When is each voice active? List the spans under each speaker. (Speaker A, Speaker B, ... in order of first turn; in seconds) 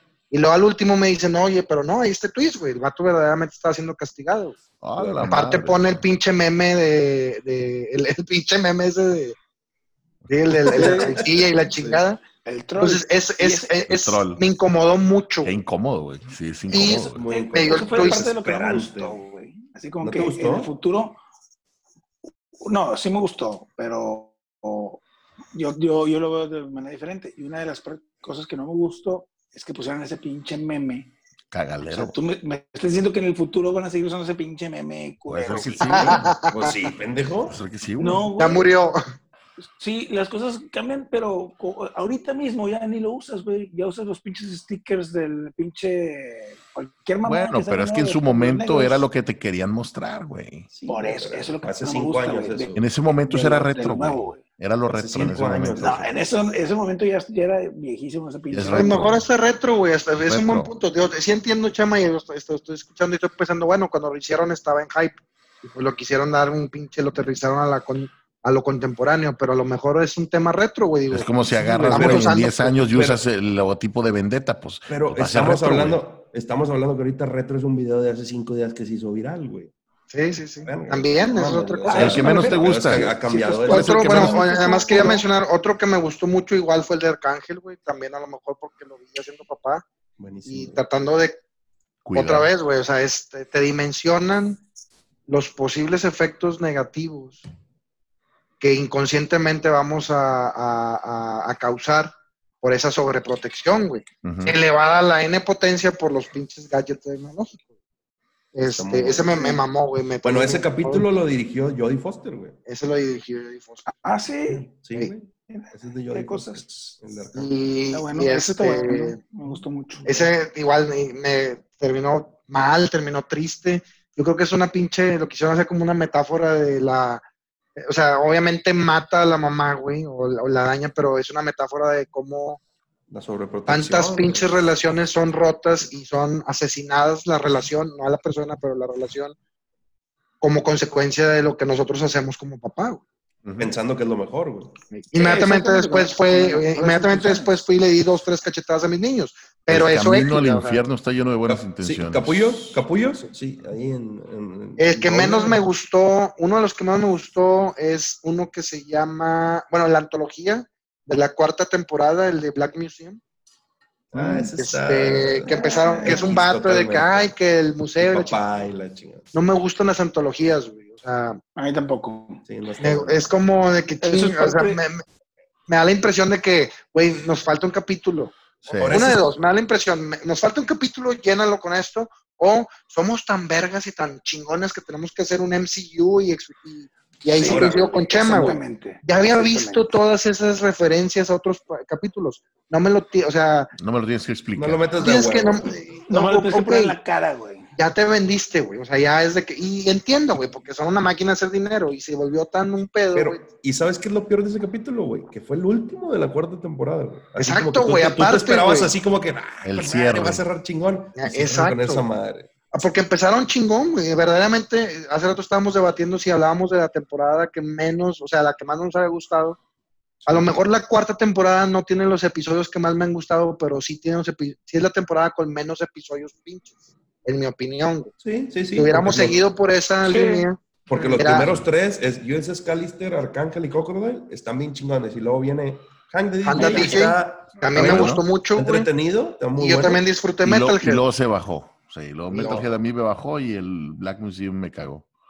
Speaker A: 0.3-9.4, 10.3-12.2, 12.8-15.5, 16.7-18.2, 35.9-36.9, 38.4-39.0, 58.7-71.3, 71.9-72.7, 80.1-82.4, 83.7-89.8, 90.5-91.4, 92.1-94.6, 95.3-97.4, 98.6-107.6, 108.5-111.1, 112.7-113.9, 117.3-119.2, 120.0-127.2, 127.8-132.6, 133.7-139.3, 140.4-143.0, 144.9-150.8, 154.8-163.2, 164.1-168.4, 169.3-171.4, 172.8-175.0, 175.7-193.7, 195.0-197.0, 197.8-203.4, 207.4-208.9, 211.2-212.0, 212.7-219.6, 220.2-228.1, 228.7-231.5, 236.4-238.9, 239.5-241.0, 242.3-242.7
Speaker B: 4.8-6.0, 13.9-14.4, 15.4-17.2, 31.5-32.1, 35.3-36.3, 37.5-38.3, 47.2-50.7, 52.7-56.1, 58.5-59.3, 60.2-60.7, 71.1-76.0, 82.0-85.2, 92.0-92.5, 104.2-104.5, 143.4-143.7, 149.7-152.8, 178.6-179.0, 193.8-194.8, 209.6-210.4, 231.4-231.6, 237.7-238.2, 240.4-245.0
Speaker C: 10.7-12.0, 16.7-19.2, 20.0-20.7, 35.8-37.6, 50.7-52.8, 54.9-56.1, 71.5-73.2, 74.9-79.7, 80.6-84.3, 90.2-90.8, 108.7-109.6, 110.2-112.6, 114.5-117.5, 133.1-134.6, 143.6-144.8, 151.5-155.6, 164.1-167.3, 168.0-169.5, 172.4-173.2, 178.7-179.2, 187.4-188.1, 194.5-195.8, 203.1-212.5, 228.2-229.4, 230.9-240.0
Speaker D: 10.7-11.2, 12.4-13.7, 17.3-21.2, 22.6-25.0, 25.5-31.1, 31.9-36.2, 38.0-38.7, 39.6-49.0, 50.9-54.4, 55.8-59.1, 81.8-85.2, 113.9-114.7, 115.5-116.6, 117.9-120.2, 145.1-147.5, 165.4-166.4, 171.6-172.4, 174.0-174.8, 187.3-189.9, 196.1-197.7, 230.1-230.4, 236.6-237.1